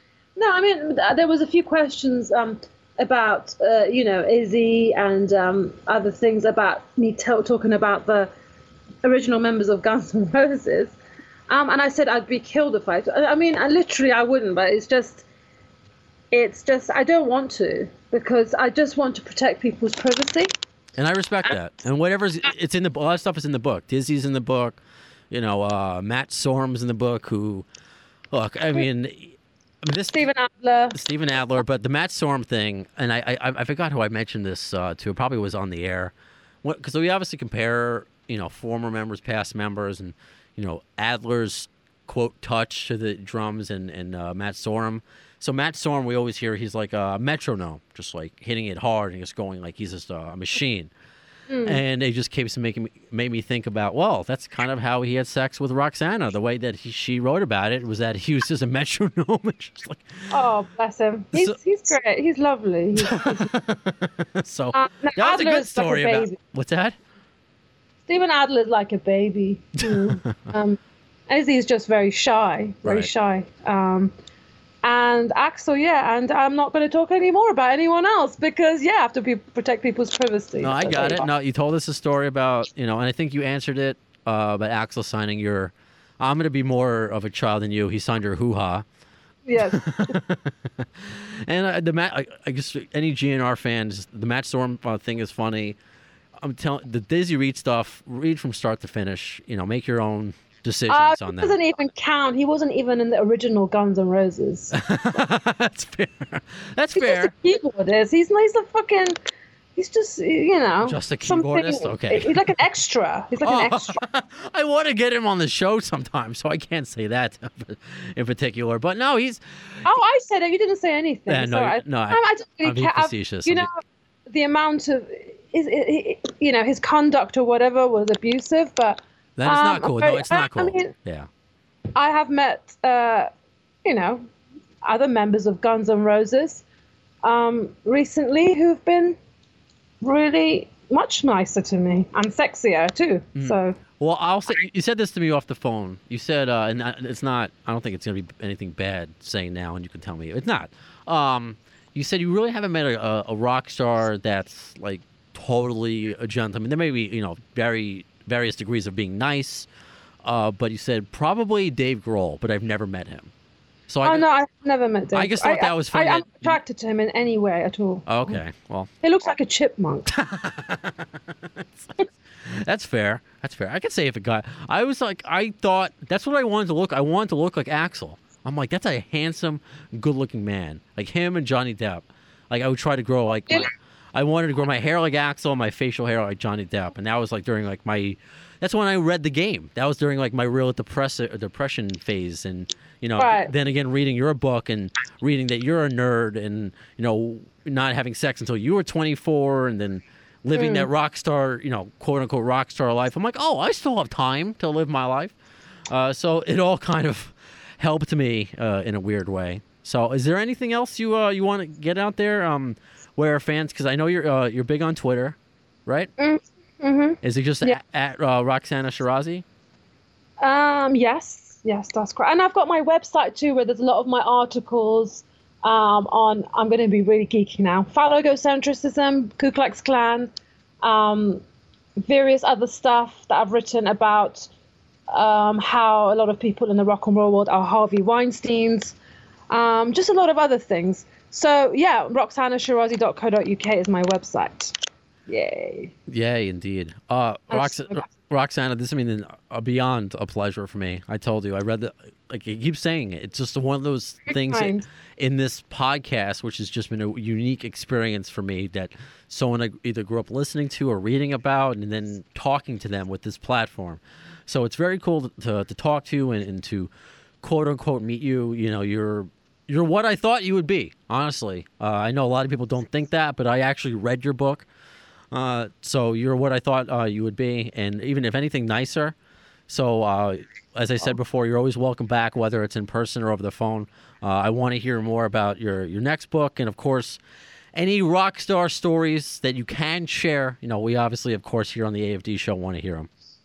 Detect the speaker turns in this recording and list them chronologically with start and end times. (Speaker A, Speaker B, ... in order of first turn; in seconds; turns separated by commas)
Speaker A: 0.4-8.3, Speaker A: 9.0-11.0, Speaker A: 11.5-15.3, Speaker A: 16.3-20.5, Speaker B: 21.0-24.8, Speaker B: 25.3-27.7, Speaker B: 28.3-30.3, Speaker A: 30.1-31.0, Speaker B: 30.9-50.9, Speaker A: 51.5-51.8, Speaker B: 51.6-60.3, Speaker A: 60.3-63.5, Speaker B: 63.0-67.0, Speaker A: 64.7-66.4, Speaker A: 68.1-74.1, Speaker B: 69.8-70.1, Speaker B: 72.8-73.1, Speaker A: 74.8-81.3, Speaker B: 80.6-88.8, Speaker A: 89.5-90.2, Speaker B: 89.6-95.8, Speaker B: 96.4-101.6, Speaker A: 100.9-104.8, Speaker B: 104.7-107.3, Speaker A: 107.0-109.2, Speaker A: 109.8-114.0, Speaker B: 110.8-112.5, Speaker B: 113.4-119.9, Speaker A: 119.8-130.9, Speaker B: 121.3-123.7, Speaker B: 129.4-131.3, Speaker A: 131.9-133.3, Speaker A: 133.8-134.3, Speaker A: 134.8-136.6, Speaker A: 137.2-139.2, Speaker A: 140.0-143.8, Speaker B: 143.4-159.7, Speaker B: 160.2-163.3, Speaker B: 163.9-164.2, Speaker A: 164.0-168.4, Speaker B: 165.1-166.6, Speaker B: 168.1-168.9, Speaker A: 169.0-170.1, Speaker B: 170.1-205.4, Speaker A: 193.2-193.5, Speaker A: 200.6-200.9, Speaker B: 205.9-216.1, Speaker A: 216.2-217.8, Speaker B: 217.2-219.4, Speaker A: 220.4-230.3, Speaker A: 230.8-231.4, Speaker A: 232.0-234.5, Speaker A: 235.1-239.0, Speaker A: 239.5-244.7, Speaker A: 245.3-245.9, Speaker B: 246.1-266.9, Speaker A: 247.5-248.1, Speaker A: 254.3-254.9, Speaker B: 267.4-274.7, Speaker B: 275.3-279.1, Speaker B: 279.7-287.2, Speaker B: 287.7-293.1